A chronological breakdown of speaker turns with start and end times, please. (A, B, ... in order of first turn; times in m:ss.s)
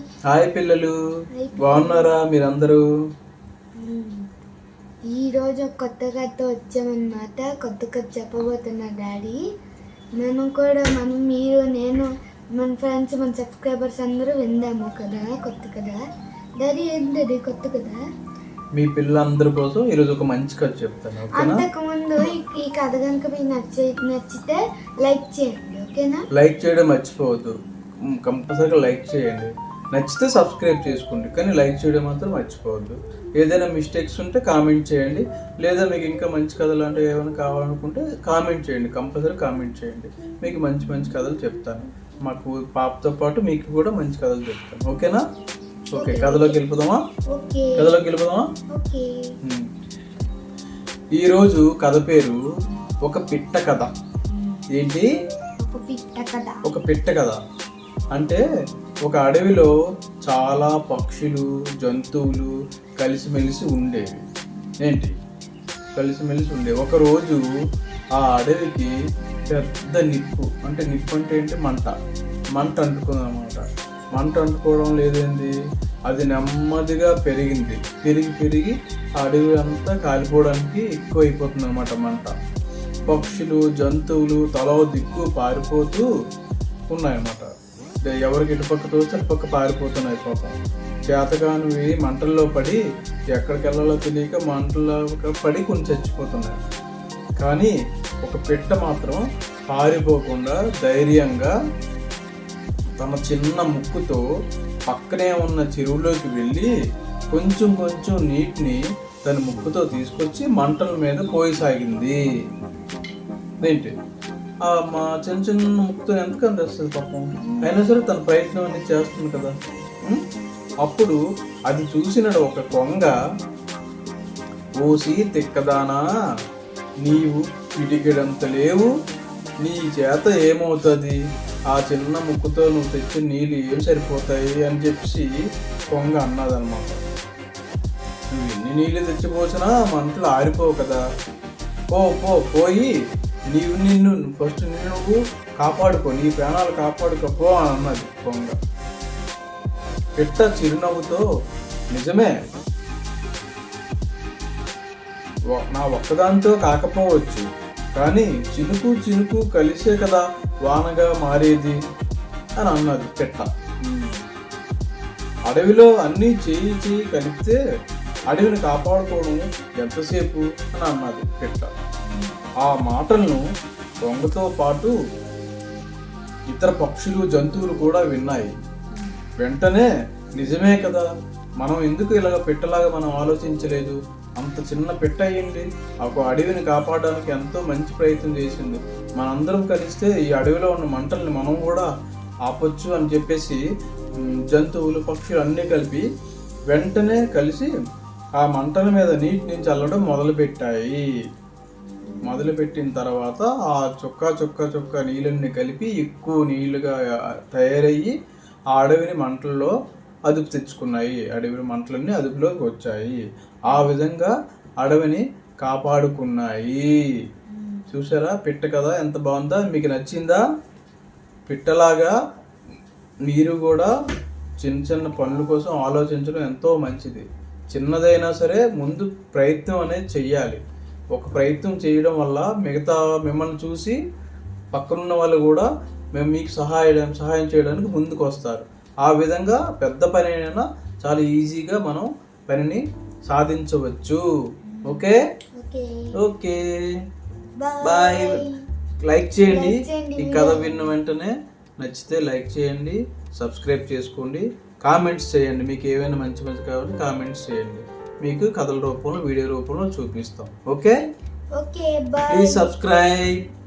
0:00.3-0:00.9 A
0:01.4-0:02.1 B
0:01.6-0:02.8 A
0:03.8-0:04.2 B
0:05.1-0:09.4 B
0:10.2-0:16.0 B
0:16.6-0:18.0 B
0:18.8-0:21.6 A
0:21.4-0:26.3 B
0:26.3-0:27.6 A
0:28.1-0:45.2 A
0:45.9-0:47.0 A
0:46.0-0:46.6 B
0:47.3-0:47.9 B
0:47.8-0:48.5 A
0:48.7-0:49.2 B
0:51.2-0:52.4 A
0:53.0-0:53.9 A
0:54.3-0:54.6 B
0:54.7-0:55.1 A
0:55.6-0:56.6 B
0:56.7-0:57.4 A
0:58.1-0:58.4 A
0:59.0-0:59.7 A
1:00.2-1:04.2 A
1:04.8-1:05.1 A
1:06.0-1:07.4 A
1:08.2-1:08.9 A
1:09.5-1:11.9 A
1:12.6-1:13.6 A
1:14.1-1:15.5 A
1:16.1-1:22.3 A
1:23.1-1:26.1 A
1:26.9-1:27.5 A
1:28.0-1:30.6 A
1:31.1-1:32.8 A
1:33.3-1:36.6 A
1:37.4-1:41.5 A
1:43.0-1:44.2 A
1:44.9-1:46.7 A
1:47.3-1:52.2 A
1:53.6-1:53.9 A
1:54.7-1:59.5 A
1:57.4-1:57.8 B
2:00.8-2:03.1 A
2:04.8-2:06.0 A
2:07.0-2:08.9 A
2:09.6-2:11.2 A
2:11.7-2:15.3 A
2:15.9-2:17.0 A
2:18.3-2:21.0 A
2:21.9-2:22.9 A
2:23.5-2:28.5 A
2:30.2-2:31.2 A
2:31.9-2:32.3 A
2:35.5-2:41.8 A
2:42.6-2:43.5 A
2:43.9-2:44.2 B
2:45.5-2:47.6 A
2:48.3-2:51.7 A
2:52.1-2:52.4 B
2:52.6-2:53.4 A
2:54.0-2:54.9 A
2:56.5-2:58.5 A
2:59.4-3:01.1 A
3:01.6-3:11.9 A
3:12.5-3:13.6 A
3:14.2-3:16.1 A
3:16.7-3:17.7 A
3:18.4-3:21.0 A
3:22.2-3:27.0 A
3:27.5-3:28.1 A
3:28.7-3:29.7 A
3:30.3-3:36.8 A
3:37.5-3:37.9 B
3:37.9-3:40.4 A
3:41.5-3:42.2 A
3:43.3-3:43.9 A
3:44.6-3:50.6 A
3:51.1-3:54.0 A
3:54.7-4:04.2 A
4:04.7-4:05.0 B
4:04.8-4:05.2 A
4:05.6-4:06.1 B
4:06.2-4:06.6 A
4:07.6-4:08.6 B
4:07.8-4:08.4 A
4:09.0-4:21.0 A
4:09.5-4:10.8 B
4:21.6-4:22.7 B
4:22.3-4:23.4 A